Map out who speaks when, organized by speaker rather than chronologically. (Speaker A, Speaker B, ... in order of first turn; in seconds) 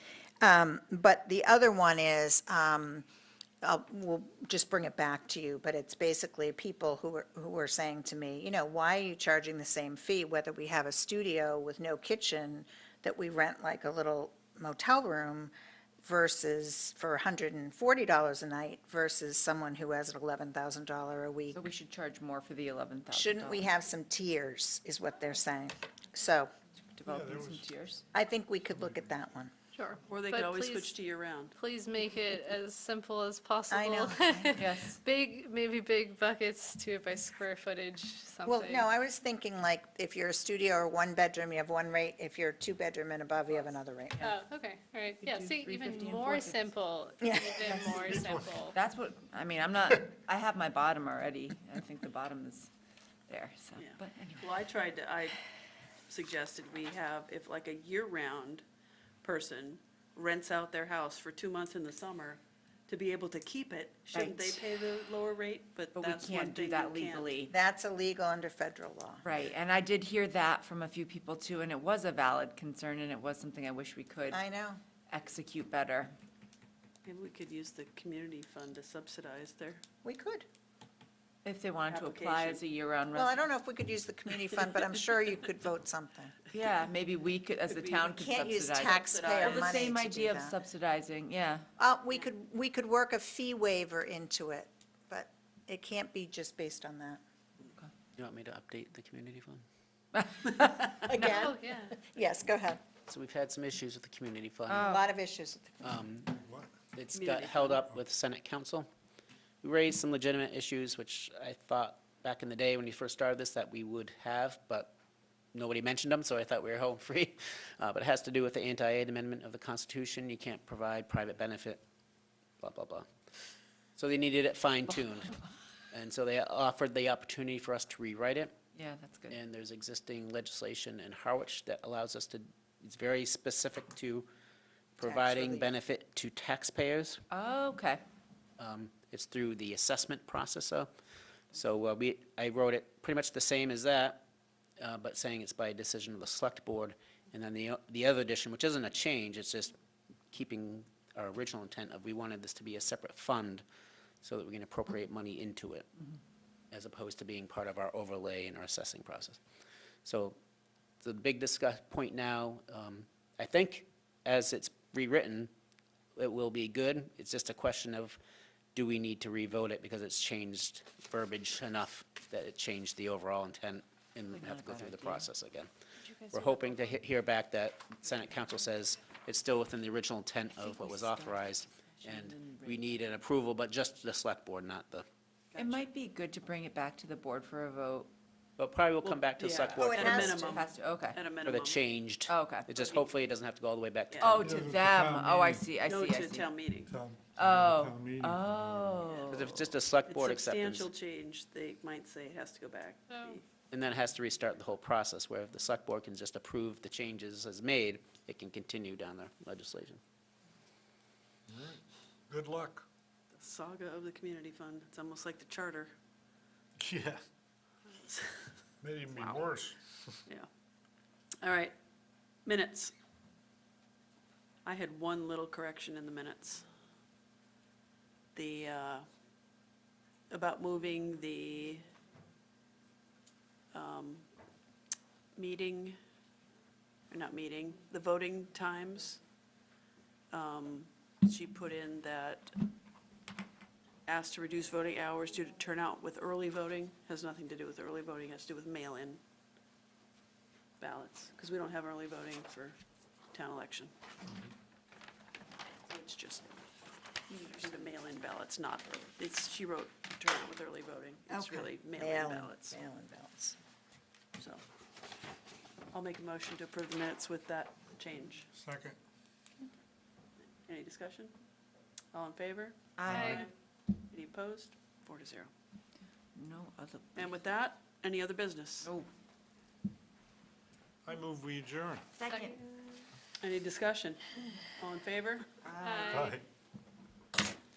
Speaker A: 0.4-3.0, 3.6-15.5, 16.0-21.6, 23.1-26.5, 28.1-29.5, 33.7-34.6, 38.5-44.3, 47.2-48.0, 67.5-69.3, 74.3-74.8, 80.0-80.5, 83.1-86.3, 88.1-90.6, 91.8-97.2, 100.9-102.8, 104.8-106.0, 135.0-135.7, 189.8-190.6, 261.3-263.6
Speaker B: 21.5-23.6, 26.9-28.0, 34.5-35.0, 45.2-46.7, 47.6-52.7, 53.3-54.5, 64.1-64.7, 65.9-67.5, 69.2-74.4, 75.1-76.1, 81.4-83.4, 86.5-91.7, 100.1-101.2, 104.7-105.0, 128.7-129.3, 137.3-138.0, 174.3-175.3, 176.2-176.5, 180.6-182.9, 185.6-188.1, 189.9-191.2, 192.3-192.8, 194.2-196.5, 197.3-199.7, 273.0-273.3, 276.3-277.3, 282.2-282.6, 285.6-286.3
Speaker C: 27.1-27.7, 28.8-29.1, 48.1-48.6, 106.4-106.8, 194.4-195.7, 196.8-198.4, 211.5-212.8, 216.8-217.2, 218.8-220.1, 268.5-269.0, 273.1-273.4, 281.0-282.1, 286.1-286.4
Speaker D: 29.7-30.9, 31.5-38.9, 44.2-48.8, 101.2-102.0, 203.1-203.4, 273.1-273.4, 282.3-282.6, 285.8-286.3
Speaker E: 30.1-31.5, 53.8-55.4, 56.1-58.6, 59.2-67.3, 77.0-79.8, 81.9-82.6, 87.7-88.1, 88.7-89.8, 107.1-107.8, 185.5-185.8, 189.0-191.8, 192.8-193.1, 194.1-194.4, 195.8-196.9, 200.1-203.4, 213.3-215.9, 217.9-218.5, 219.1-219.7, 221.4-221.7, 222.4-222.9, 224.6-226.7, 228.3-229.1, 230.3-231.9, 233.7-234.2, 235.3-236.0, 237.1-239.2, 240.3-242.6, 244.1-249.2, 250.8-252.8, 253.3-253.9, 255.8-256.6, 257.3-262.8, 264.4-264.6, 265.9-268.5, 270.6-271.3, 272.1-273.5, 274.1-275.5, 277.1-278.9, 283.4-284.2, 284.8-285.5
Speaker F: 98.2-99.6, 103.1-104.9, 105.8-106.4, 106.9-108.9, 109.6-114.9, 115.5-121.8, 122.6-123.0, 124.0-125.3, 125.9-128.5, 129.3-134.3, 134.9-137.2, 138.6-140.9, 141.5-144.2, 144.8-149.7, 150.3-153.6, 154.2-155.9, 156.7-159.4, 160.0-160.3, 161.0-165.5, 166.2-168.2, 168.7-175.7, 176.3-185.1, 188.6-190.3, 191.4-194.6, 199.3-200.9, 203.7-210.0